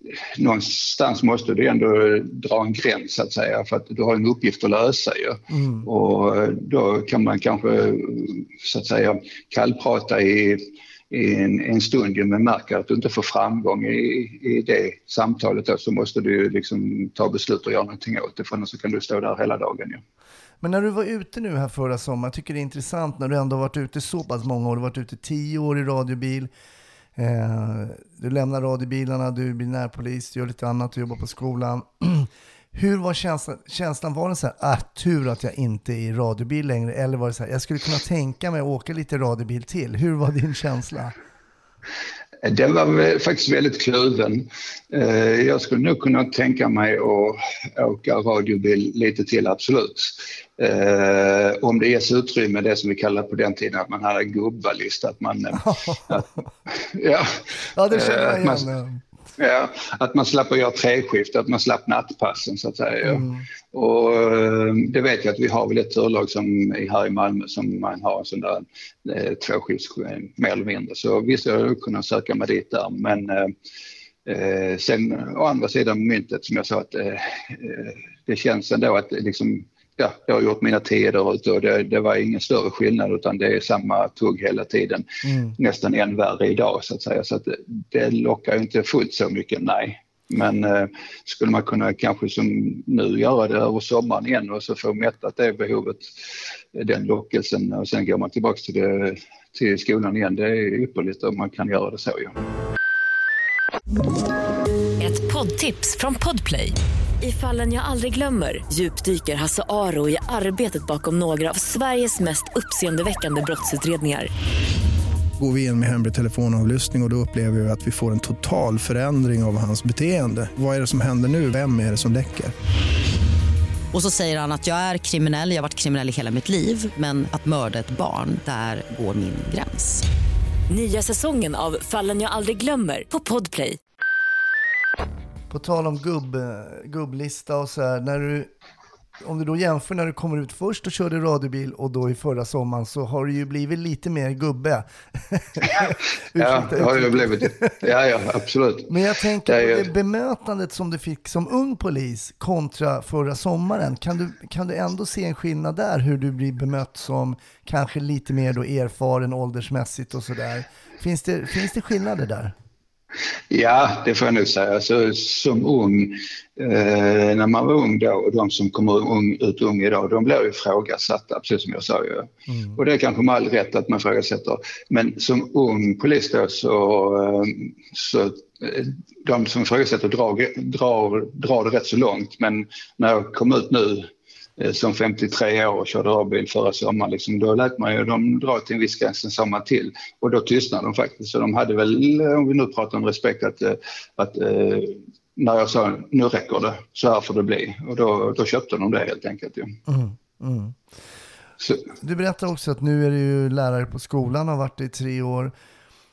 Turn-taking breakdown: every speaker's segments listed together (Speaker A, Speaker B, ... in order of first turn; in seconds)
Speaker A: 0.4-20.0, 42.4-58.7, 59.4-73.5, 74.3-85.0, 85.6-96.1, 96.7-102.4, 145.8-148.9, 149.5-149.9, 163.5-199.7
Speaker B: 5.5-5.9, 20.6-26.5, 27.2-41.1, 55.6-56.2, 57.7-59.0, 63.0-63.5, 85.2-85.6, 135.5-138.5, 139.2-147.9, 148.9-162.6, 172.5-172.8, 199.9-200.8, 202.0-205.5
Speaker C: 105.0-114.3, 130.7-133.8
Speaker D: 115.4-122.5
Speaker E: 123.9-130.0